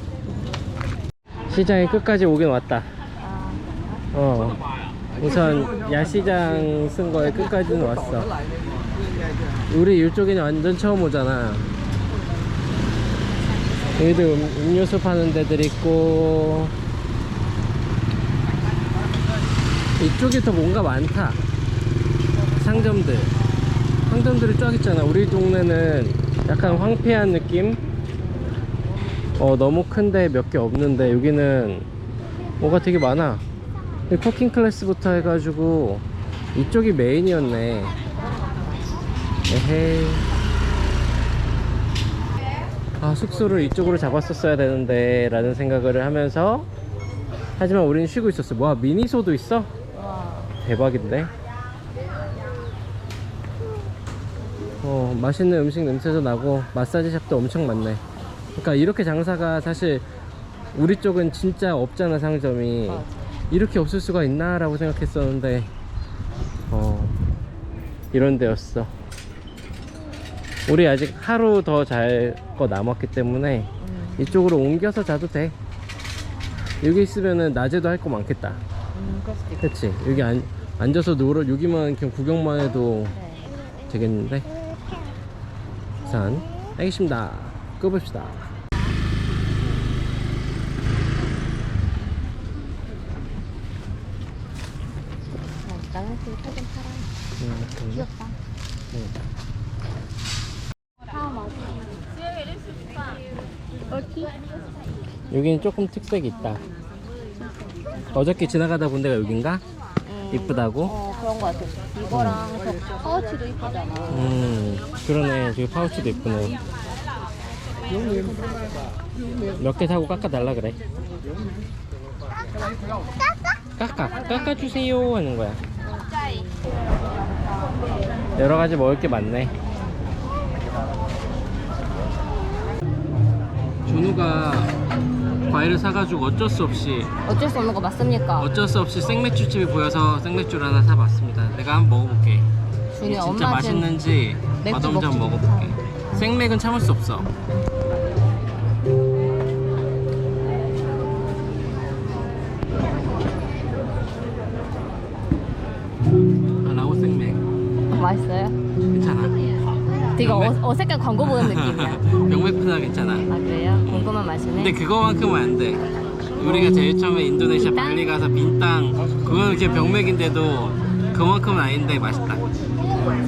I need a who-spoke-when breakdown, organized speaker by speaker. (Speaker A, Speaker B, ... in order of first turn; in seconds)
Speaker A: 0.3-0.6, 3.2-3.8, 12.1-12.5, 13.3-14.4, 38.1-39.0, 49.9-50.5, 62.9-63.2, 73.8-74.5, 78.9-80.3, 83.2-83.5, 95.6-97.1, 97.9-98.4, 101.1-101.9, 103.9-104.4, 110.0-114.4, 117.8-118.8, 121.2-121.4, 125.9-126.9, 129.7-130.1, 137.3-138.5, 142.9-143.9, 144.6-145.8, 157.9-158.6, 160.2-162.1, 163.3-164.8, 166.3-166.8, 167.5-168.1
Speaker B: 1.5-2.9, 4.1-4.6, 5.2-8.3, 9.7-11.7, 14.0-16.7, 20.0-21.4, 22.6-23.3, 24.1-27.8, 29.4-31.9, 32.6-33.4, 34.1-38.0, 39.5-40.2, 43.0-46.7, 47.6-49.7, 50.6-51.3, 54.8-58.0, 58.6-60.0, 60.7-65.7, 66.7-67.2, 68.1-68.9, 70.7-75.5, 76.8-78.6, 79.6-83.2, 83.9-84.5, 86.0-88.5, 97.4-98.1, 105.3-106.6, 108.1-109.6, 110.3-110.9, 112.1-112.4, 114.1-116.6, 119.6-120.8, 123.8-125.6, 128.4-129.5, 133.9-134.7, 135.5-137.1, 138.4-142.5, 143.0-147.3, 156.6-157.4, 158.9-159.4, 160.2-160.6, 161.2-163.3, 163.8-165.8, 166.4-172.4